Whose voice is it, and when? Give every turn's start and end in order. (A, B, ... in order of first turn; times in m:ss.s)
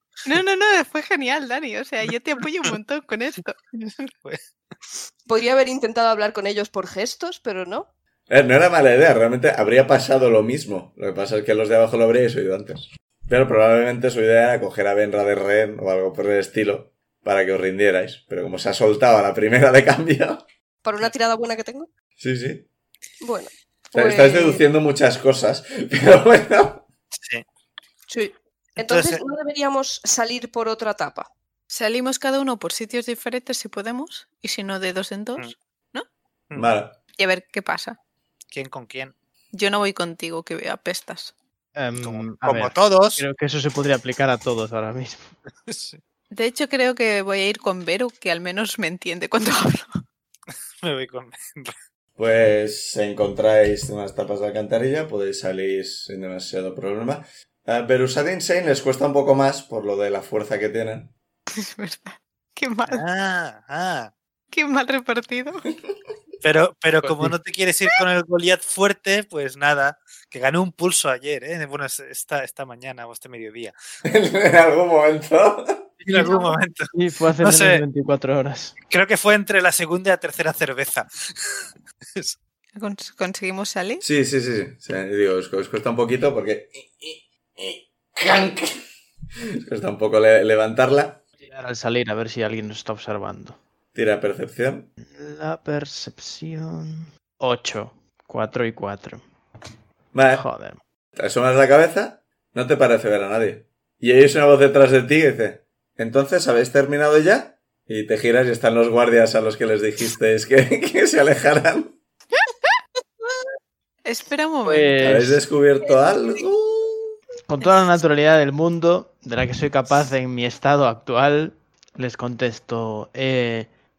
0:00.2-0:03.6 A
0:05.3-0:07.9 B
0:08.3-0:20.4 C
0:20.8-0:21.9 B
0:22.2-0:22.7 C
0:23.2-0:24.6 B
0:23.9-0:26.8 C
0:27.1-0:27.4 D
0:28.1-0:31.3 B
0:28.8-0:29.2 D
0:31.7-0:36.1 A
0:36.6-0:37.0 C
0:37.2-0:38.0 A
0:38.5-0:39.1 D
0:39.5-0:41.3 A
0:41.8-0:45.3 E
0:42.0-0:43.2 D
0:45.7-0:46.0 D
0:46.3-0:49.9 A
0:50.8-0:51.8 D
0:52.2-1:01.1 C
1:01.6-1:03.0 A
1:02.9-1:04.1 D
1:04.5-1:05.7 A
1:06.4-1:13.8 D
1:07.0-1:07.4 E
1:14.1-1:15.8 C
1:16.0-1:17.8 D
1:16.2-1:16.6 A
1:16.9-1:18.8 E
1:18.9-1:22.4 D
1:22.8-1:24.0 A
1:24.0-1:28.8 C
1:29.4-1:31.2 C
1:31.4-1:33.6 E
1:33.9-1:34.9 C
1:35.1-1:39.2 E
1:40.1-1:40.5 C
1:40.3-1:40.8 E
1:41.2-1:52.0 C
1:54.0-1:55.2 A
1:54.6-1:55.4 E
1:55.0-1:57.1 C
1:57.5-2:03.7 E